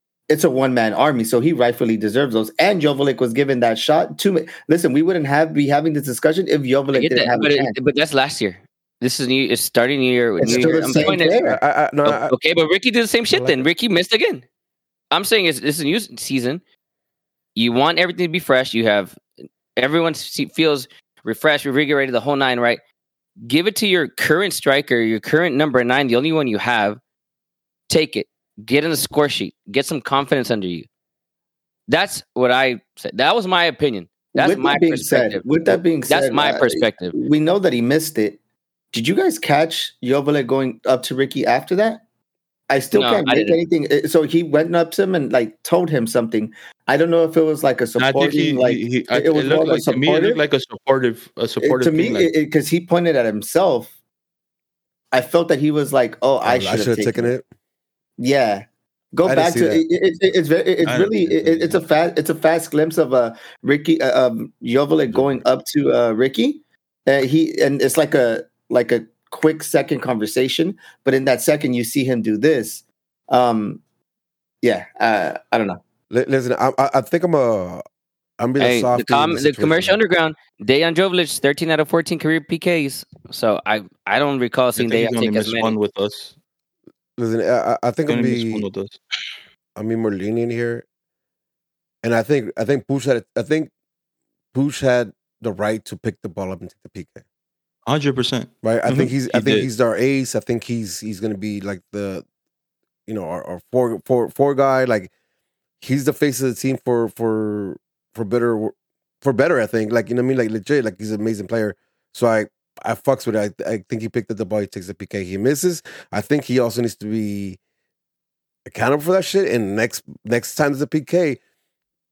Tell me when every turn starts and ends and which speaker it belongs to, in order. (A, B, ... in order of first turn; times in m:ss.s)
0:00.3-0:07.7 A
0:06.9-0:11.4 B
0:10.4-0:11.6 A
0:10.4-0:12.3 C
0:12.0-0:14.4 B
0:13.3-0:13.6 C
0:15.1-0:16.6 B
0:17.6-0:19.2 B
0:19.8-0:22.8 B
0:23.4-0:27.0 B
0:27.9-0:30.9 B
0:31.9-0:37.1 B
0:34.3-0:38.4 A
0:38.9-0:42.0 A
0:42.7-0:50.4 A
0:42.9-0:43.6 B
0:48.0-0:52.3 D
0:51.6-0:53.9 A
0:55.1-0:57.3 A
0:56.4-0:57.4 C
0:58.2-1:13.8 A
0:59.2-0:59.8 C
1:00.8-1:01.8 D
1:05.1-1:05.4 C
1:14.6-1:15.8 A
1:16.1-1:17.8 C
1:18.4-1:20.0 C
1:18.6-1:25.8 B
1:24.8-1:26.3 D
1:27.2-1:28.6 C
1:28.1-1:29.0 D
1:29.8-1:30.8 C
1:32.0-1:33.7 C
1:34.5-1:37.2 C
1:37.9-1:39.7 D
1:38.6-1:42.2 C
1:43.1-1:45.1 C
1:45.8-1:57.6 C
1:58.6-2:01.4 C